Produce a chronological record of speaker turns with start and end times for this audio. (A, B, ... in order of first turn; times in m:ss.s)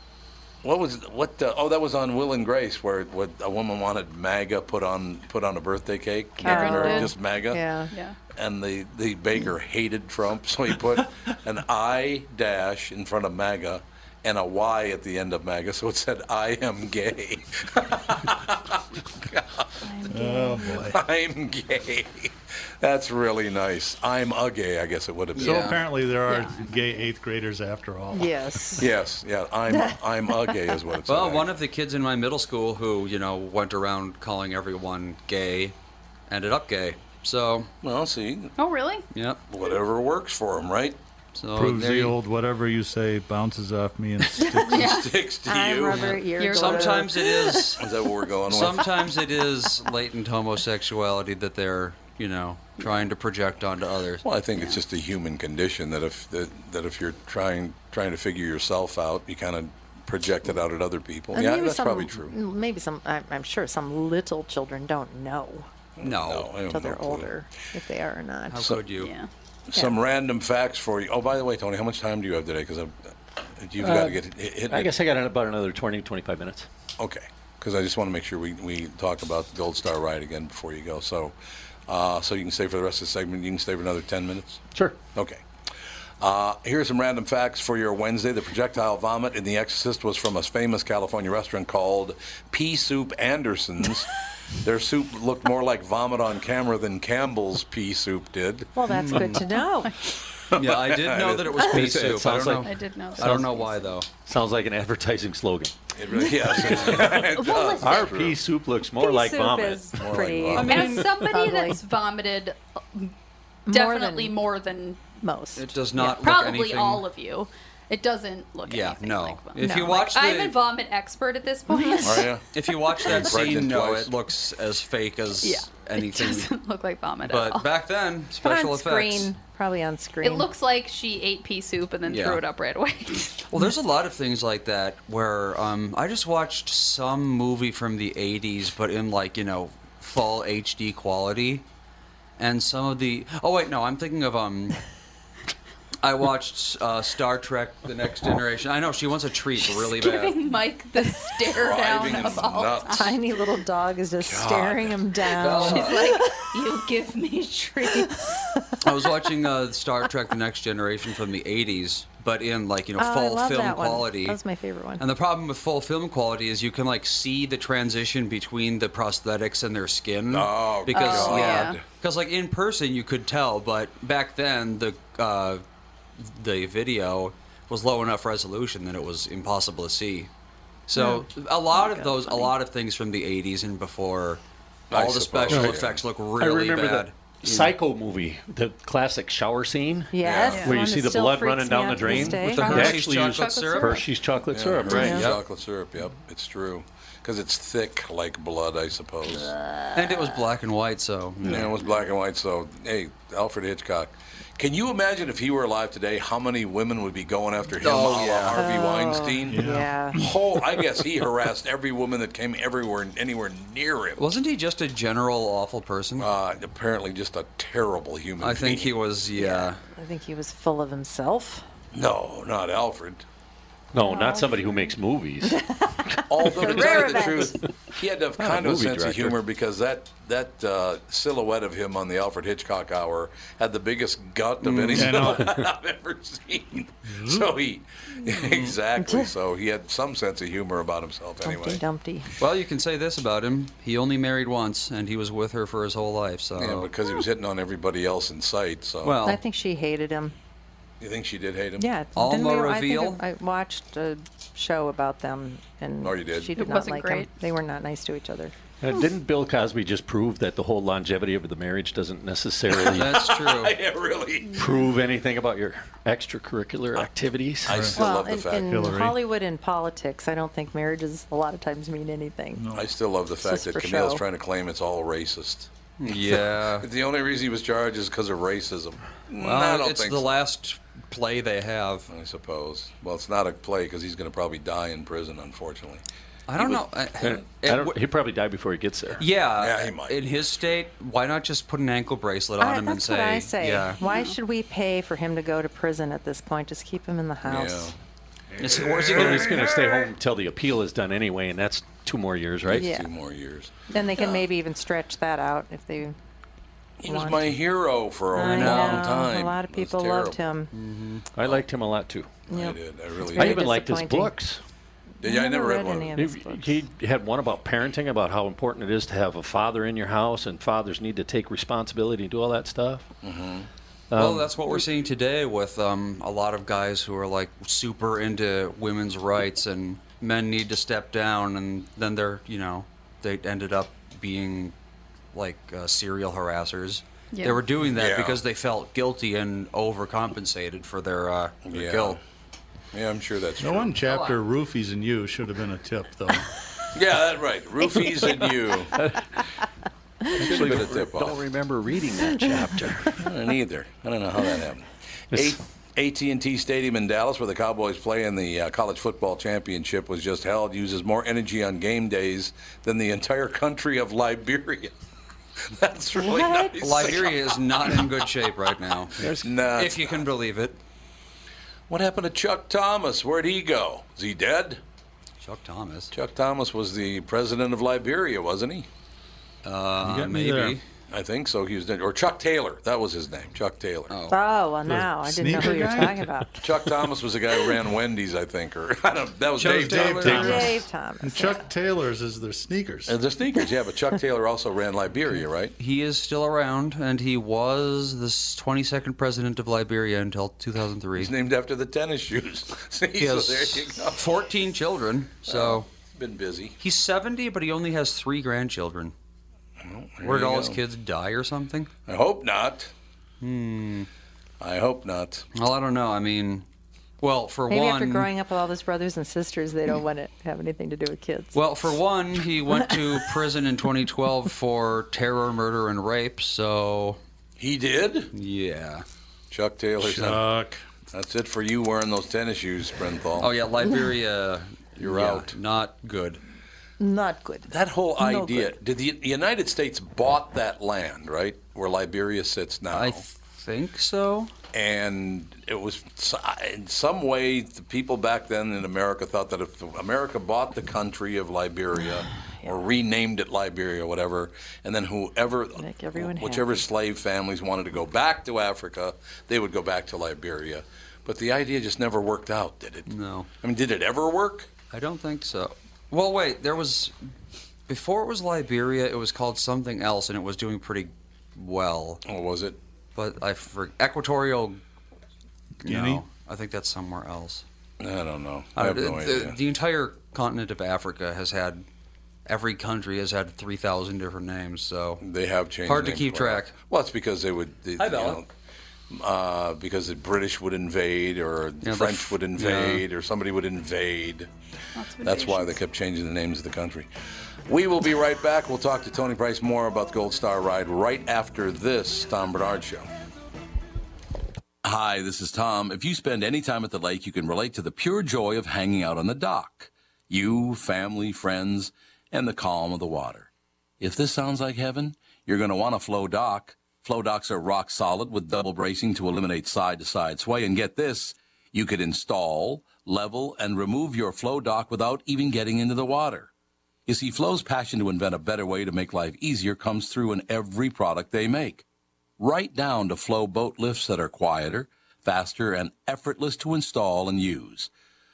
0:00.6-0:07.6 A
0:06.4-0:07.2 B
0:06.4-0:07.9 C
0:07.9-0:08.2 B
0:08.4-0:19.8 A
0:19.9-0:20.9 B
0:20.1-0:21.0 D
0:20.9-0:25.7 A
0:25.4-0:25.8 E
0:25.4-0:28.4 D
0:26.2-0:27.0 B
0:28.1-0:28.9 C
0:28.8-0:31.5 A
0:29.7-0:30.6 C
0:31.1-0:35.8 E
0:36.3-0:37.7 E
0:37.8-0:38.6 A
0:38.6-0:39.1 B
0:39.1-0:39.4 E
0:39.5-0:41.0 A
0:41.4-0:42.2 E
0:41.5-0:44.9 D
0:44.7-0:45.2 B
0:44.7-0:46.1 A
0:45.5-0:47.8 C
0:45.9-0:47.8 E
0:46.3-0:47.3 B
0:47.8-0:49.0 A
0:48.5-0:54.2 E
0:54.2-1:02.3 A
1:01.3-1:05.7 C
1:06.0-1:07.3 A
1:06.0-1:06.5 E
1:06.6-1:08.7 C
1:08.5-1:09.1 E
1:09.0-1:09.3 B
1:09.7-1:13.0 A
1:13.6-1:14.9 A
1:13.8-1:16.7 F
1:17.0-1:21.4 A
1:21.9-1:24.6 A
1:24.7-1:25.0 F
1:25.2-1:25.4 A
1:26.2-1:38.7 A
1:38.8-1:39.9 C
1:38.9-1:39.5 E
1:40.5-1:42.1 A
1:40.6-1:44.1 E
1:41.6-1:42.7 F
1:42.6-1:43.9 B
1:43.2-1:43.5 F
1:44.2-1:45.8 F
1:46.0-1:48.4 A
1:46.1-1:48.2 B
1:46.9-1:47.3 F
1:47.8-1:50.2 F
1:49.0-1:51.8 C
1:50.0-1:50.8 A
1:50.5-1:53.1 B
1:50.6-1:51.1 E
1:53.7-1:54.4 C
1:53.7-1:55.1 B
1:55.2-1:56.1 C
1:55.6-1:57.1 E
1:56.0-2:02.4 B
1:58.6-2:00.6 E
1:59.6-2:00.1 C
2:01.7-2:02.2 C
2:02.0-2:02.4 A
2:02.5-2:06.6 E
2:03.1-2:04.1 A
2:05.4-2:07.7 B
2:07.2-2:09.3 E
2:08.4-2:10.5 C
2:10.2-2:13.5 B
2:12.0-2:12.4 E
2:13.5-2:21.6 E
2:22.4-2:24.8 E
2:26.0-2:30.5 E
2:29.6-2:33.2 B
2:31.5-2:33.1 A
2:32.9-2:36.8 C
2:34.2-2:35.0 A
2:35.4-2:36.1 E
2:35.6-2:38.4 B
2:37.8-2:38.3 C
2:38.8-2:44.4 E
2:43.0-2:45.0 C
2:45.0-2:55.6 E
2:50.3-2:51.8 A
2:50.9-2:51.8 B
2:56.2-3:00.3 E
3:00.9-3:07.7 E
3:01.0-3:01.2 C
3:01.8-3:02.3 C
3:04.9-3:06.0 A
3:05.5-3:05.9 F
3:06.4-3:15.3 F
3:10.1-3:13.0 C
3:10.2-3:10.6 A
3:10.4-3:10.8 B
3:12.0-3:14.0 E
3:12.5-3:14.1 B
3:14.5-3:19.5 A
3:14.8-3:15.3 C
3:14.9-3:15.4 E
3:19.3-3:20.4 C
3:19.9-3:21.8 E
3:21.4-3:34.2 A
3:27.8-3:28.7 E
3:28.5-3:30.2 C
3:29.5-3:30.4 D
3:34.2-3:36.3 E
3:36.2-3:38.9 A
3:38.4-3:39.8 E
3:39.4-3:41.6 C
3:41.9-3:43.2 A
3:43.9-3:45.6 F
3:44.0-3:47.6 C
3:46.3-4:01.8 A
3:48.4-3:49.4 F
3:54.6-3:55.1 E
3:54.9-3:55.5 D
3:55.1-3:55.6 F
3:57.1-3:57.5 D
3:58.4-3:58.8 E
3:59.0-3:59.3 C
4:01.4-4:02.4 C
4:02.4-4:06.9 E
4:06.6-4:09.2 A
4:09.0-4:09.4 E
4:09.2-4:10.4 C
4:11.0-4:11.9 A
4:11.8-4:18.6 C
4:12.2-4:13.2 E
4:16.0-4:16.6 A
4:16.6-4:17.3 B
4:18.8-4:23.2 F
4:22.7-4:24.6 A
4:22.8-4:23.8 E
4:24.4-4:25.0 B
4:24.6-4:27.9 F
4:27.7-4:28.8 A
4:27.7-4:29.2 D
4:27.9-4:32.7 C
4:32.6-4:32.8 D
4:32.7-4:40.3 A
4:33.4-4:34.2 C
4:36.0-4:36.9 E
4:39.4-4:42.1 E
4:42.1-4:46.0 A
4:46.5-4:48.0 E
4:46.6-4:47.4 A
4:47.2-4:49.2 F
4:49.2-4:54.0 E
4:49.6-4:50.2 A
4:52.6-4:57.9 C
4:54.0-4:54.4 B
4:57.4-4:58.0 A
4:58.6-5:00.1 A
4:58.6-4:59.6 E
4:59.1-5:02.9 F
5:02.7-5:03.1 C
5:02.7-5:04.4 A
5:03.9-5:06.2 C
5:07.0-5:10.4 A
5:07.0-5:07.6 C
5:08.3-5:10.7 C
5:08.4-5:09.2 E
5:10.7-5:11.3 E
5:11.3-5:12.4 F
5:12.5-5:13.8 A
5:12.5-5:14.3 C
5:13.3-5:14.6 F
5:15.2-5:16.8 C
5:15.2-5:16.2 A
5:16.2-5:23.1 F
5:23.2-5:23.7 A
5:24.1-5:24.8 F
5:24.2-5:34.7 E
5:35.3-5:42.2 E
5:37.3-5:37.6 B
5:38.0-5:38.4 A
5:41.7-5:42.2 A
5:42.9-5:44.0 A
5:43.6-5:46.5 D
5:44.1-5:44.4 E
5:46.9-5:48.9 A
5:48.9-5:49.4 F
5:50.3-5:51.4 A
5:50.3-5:53.3 F
5:53.2-6:04.9 A
6:05.6-6:07.4 A
6:06.2-6:07.1 C
6:06.8-6:10.8 E
6:09.2-6:10.2 A
6:11.9-6:14.8 A
6:15.4-6:16.1 E
6:16.1-6:18.9 A
6:19.6-6:20.8 E
6:20.0-6:20.8 D
6:21.1-6:24.1 A
6:24.1-6:24.4 E
6:24.3-6:26.6 C
6:24.9-6:26.6 D
6:26.6-6:30.7 A
6:29.6-6:30.7 E
6:29.6-6:33.2 D
6:30.2-6:31.6 C
6:33.1-6:35.7 A
6:35.8-6:41.3 E
6:41.2-6:44.2 A
6:43.2-6:45.9 E
6:45.5-6:46.8 A
6:46.8-6:49.1 E
6:49.8-6:50.8 A
6:50.2-6:51.9 E
6:52.1-6:52.9 A
6:53.4-6:54.1 E
6:54.6-6:55.5 A
6:55.6-6:56.7 E
6:57.2-6:58.3 E
6:57.7-7:01.6 C
7:01.5-7:07.2 E
7:02.7-7:03.0 C
7:07.6-7:08.3 A
7:08.3-7:09.0 E
7:09.5-7:10.5 A
7:10.0-7:10.8 D
7:11.1-7:13.5 A
7:13.4-7:16.4 E
7:15.0-7:15.6 A
7:17.0-7:18.7 C
7:17.7-7:23.2 A
7:22.9-7:24.5 E
7:24.7-7:43.1 A
7:35.8-7:36.8 C
7:43.1-7:43.5 E
7:43.6-7:44.7 A
7:44.9-7:47.1 E
7:47.9-7:52.2 E
7:52.2-7:52.8 A
7:53.2-7:54.8 E
7:55.8-7:57.6 E
7:55.8-7:56.2 D
7:58.0-7:59.6 A
7:58.8-8:01.8 E
8:02.5-8:05.2 E
8:05.2-8:08.5 A
8:05.9-8:06.7 E
8:08.0-8:08.4 E
8:09.1-8:14.5 A
8:11.8-8:13.0 E
8:15.0-8:15.8 B
8:15.2-8:17.1 A
8:17.7-8:23.1 A
8:24.8-8:33.5 A
8:34.0-8:46.5 A
8:47.1-8:51.8 A
8:52.4-8:57.9 A